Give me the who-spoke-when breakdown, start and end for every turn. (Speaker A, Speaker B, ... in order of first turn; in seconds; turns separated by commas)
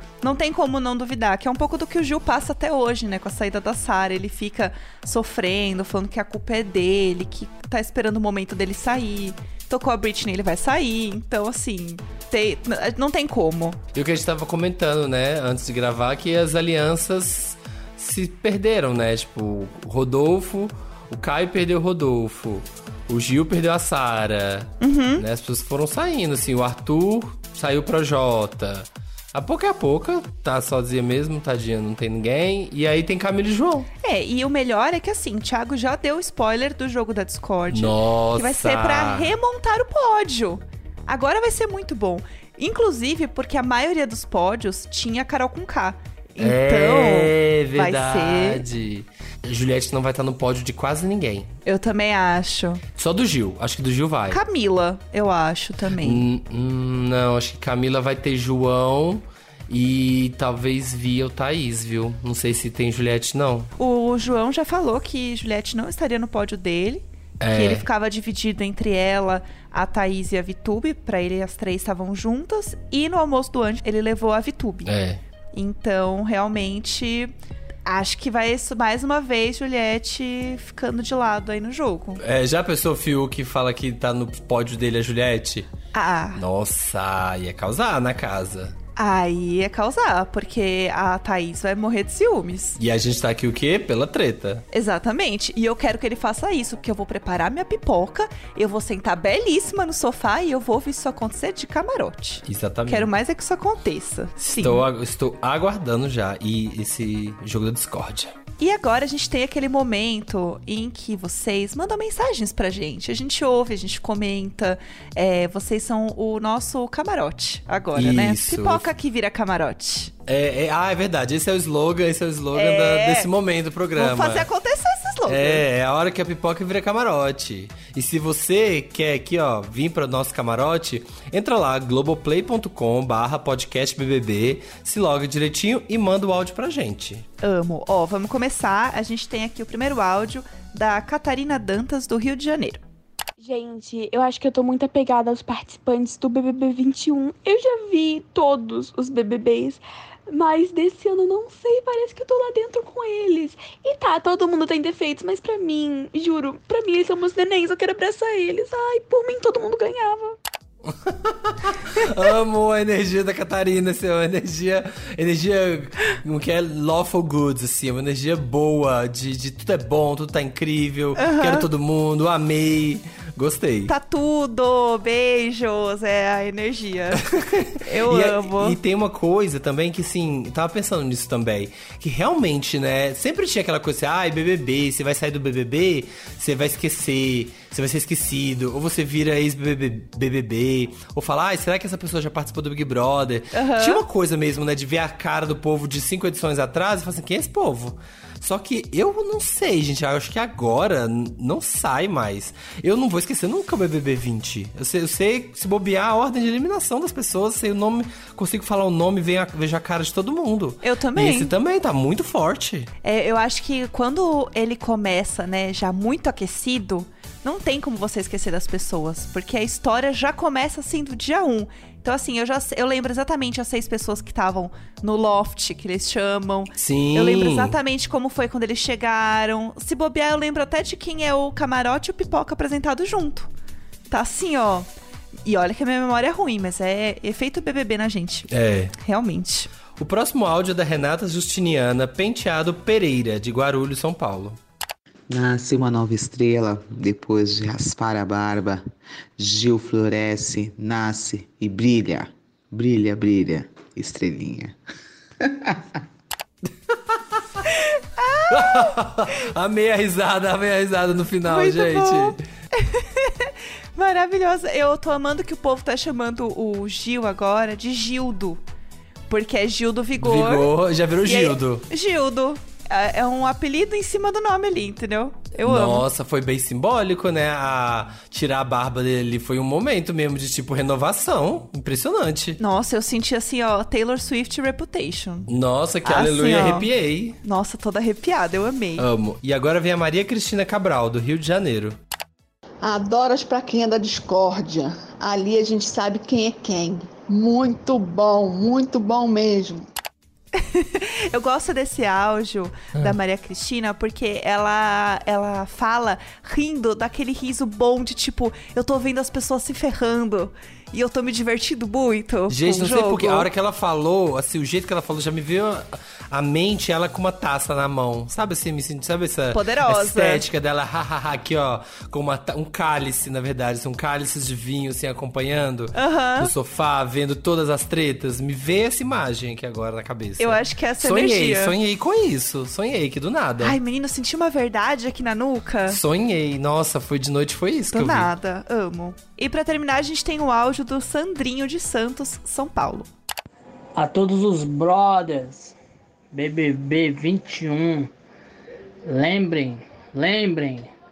Speaker A: 0.2-13.8, Speaker B: 13.9-33.9, Speaker A: 24.8-25.2, Speaker A: 34.0-48.6, Speaker B: 37.7-39.3, Speaker B: 46.4-51.5, Speaker A: 51.6-52.8, Speaker B: 53.0-54.4, Speaker A: 54.3-56.2, Speaker B: 56.0-63.7, Speaker A: 63.8-74.9, Speaker B: 67.4-67.8, Speaker B: 74.8-75.2, Speaker A: 75.5-82.2, Speaker B: 82.2-85.7, Speaker A: 85.9-86.4, Speaker B: 86.3-88.7, Speaker A: 89.0-92.8, Speaker B: 92.8-94.6, Speaker A: 94.7-104.8, Speaker B: 102.5-103.1, Speaker B: 104.4-108.3, Speaker A: 108.6-120.1, Speaker B: 117.9-118.8, Speaker B: 120.3-124.5, Speaker A: 122.5-123.3, Speaker A: 124.0-125.6, Speaker B: 125.2-137.2, Speaker A: 137.4-142.8, Speaker C: 143.4-160.4, Speaker B: 161.1-173.9, Speaker A: 171.2-171.7, Speaker A: 173.9-178.8, Speaker B: 177.3-212.9, Speaker A: 193.5-194.0, Speaker A: 210.8-211.5, Speaker A: 213.0-233.5, Speaker B: 226.8-227.7, Speaker A: 234.1-234.9, Speaker A: 235.4-239.7, Speaker B: 238.5-238.9, Speaker B: 240.0-244.6, Speaker D: 245.3-248.8, Speaker D: 249.4-254.8, Speaker B: 257.1-257.4, Speaker A: 257.6-258.9, Speaker B: 258.5-262.4, Speaker A: 261.4-268.6, Speaker A: 269.3-276.0, Speaker B: 270.2-271.9, Speaker B: 275.6-282.6, Speaker A: 282.6-285.5, Speaker B: 285.5-287.4, Speaker A: 286.0-286.9, Speaker A: 287.4-289.1, Speaker B: 289.0-292.0, Speaker E: 292.8-299.9, Speaker A: 300.5-313.5, Speaker B: 312.5-333.8, Speaker A: 319.5-320.4, Speaker A: 325.9-326.5, Speaker A: 330.4-331.8, Speaker A: 333.6-336.0, Speaker B: 335.9-338.3, Speaker A: 337.9-343.1, Speaker F: 343.9-345.8, Speaker F: 346.3-348.1, Speaker F: 349.1-350.9